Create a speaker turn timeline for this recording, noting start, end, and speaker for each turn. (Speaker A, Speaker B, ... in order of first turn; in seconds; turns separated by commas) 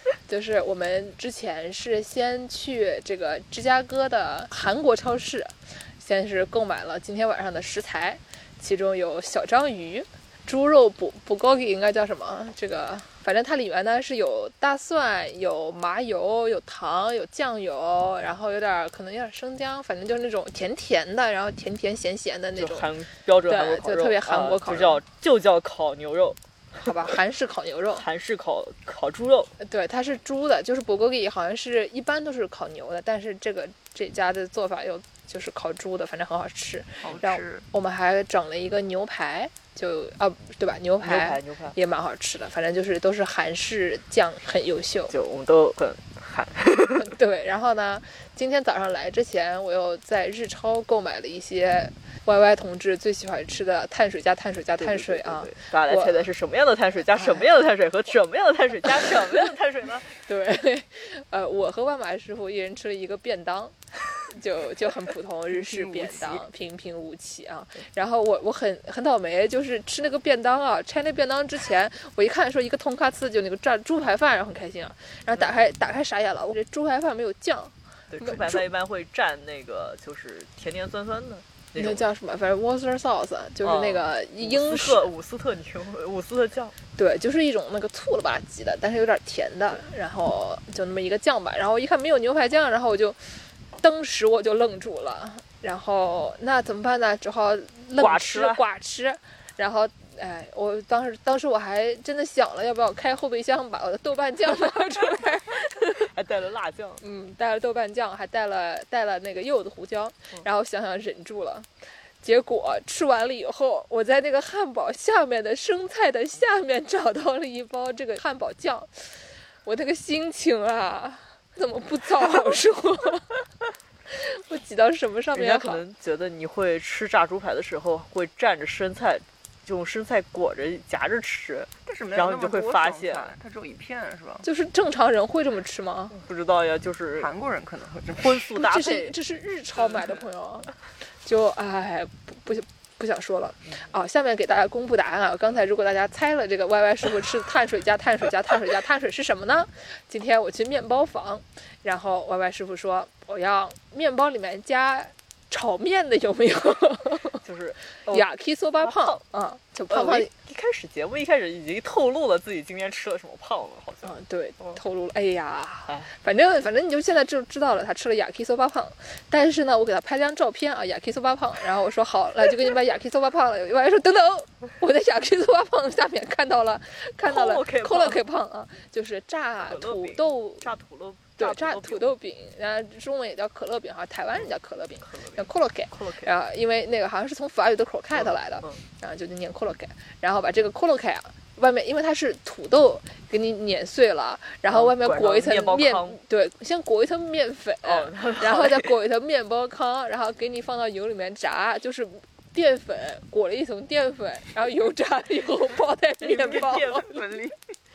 Speaker A: 0.3-22.9, Speaker B: 22.6-26.9, Speaker A: 23.5-25.0, Speaker A: 26.8-28.0, Speaker B: 27.9-29.5, Speaker A: 29.6-45.1, Speaker C: 37.0-37.6, Speaker B: 41.0-41.8, Speaker B: 45.1-47.1, Speaker A: 47.0-56.3, Speaker B: 54.8-60.1, Speaker A: 58.9-59.5, Speaker A: 60.2-78.6, Speaker C: 65.5-66.4, Speaker B: 78.1-82.1, Speaker A: 81.8-85.1, Speaker B: 83.6-86.8, Speaker A: 87.0-93.2, Speaker A: 93.8-106.1, Speaker B: 98.0-98.6, Speaker B: 106.0-107.0, Speaker A: 107.0-111.7, Speaker A: 112.2-123.3, Speaker A: 124.1-125.8, Speaker B: 125.3-133.3, Speaker C: 131.8-134.4, Speaker A: 134.4-136.2, Speaker B: 136.1-137.3, Speaker C: 137.2-138.5, Speaker B: 138.2-139.2, Speaker A: 138.5-140.7, Speaker B: 139.8-140.1, Speaker A: 141.2-157.4, Speaker B: 157.4-158.3, Speaker A: 158.1-160.3, Speaker B: 158.8-159.2, Speaker B: 159.9-164.8, Speaker A: 164.0-180.7, Speaker B: 177.2-178.2, Speaker B: 179.6-182.1, Speaker A: 181.4-207.1, Speaker B: 184.3-186.3, Speaker B: 188.2-188.8, Speaker B: 194.7-196.2, Speaker B: 197.8-198.9, Speaker B: 206.2-207.3, Speaker C: 206.8-207.6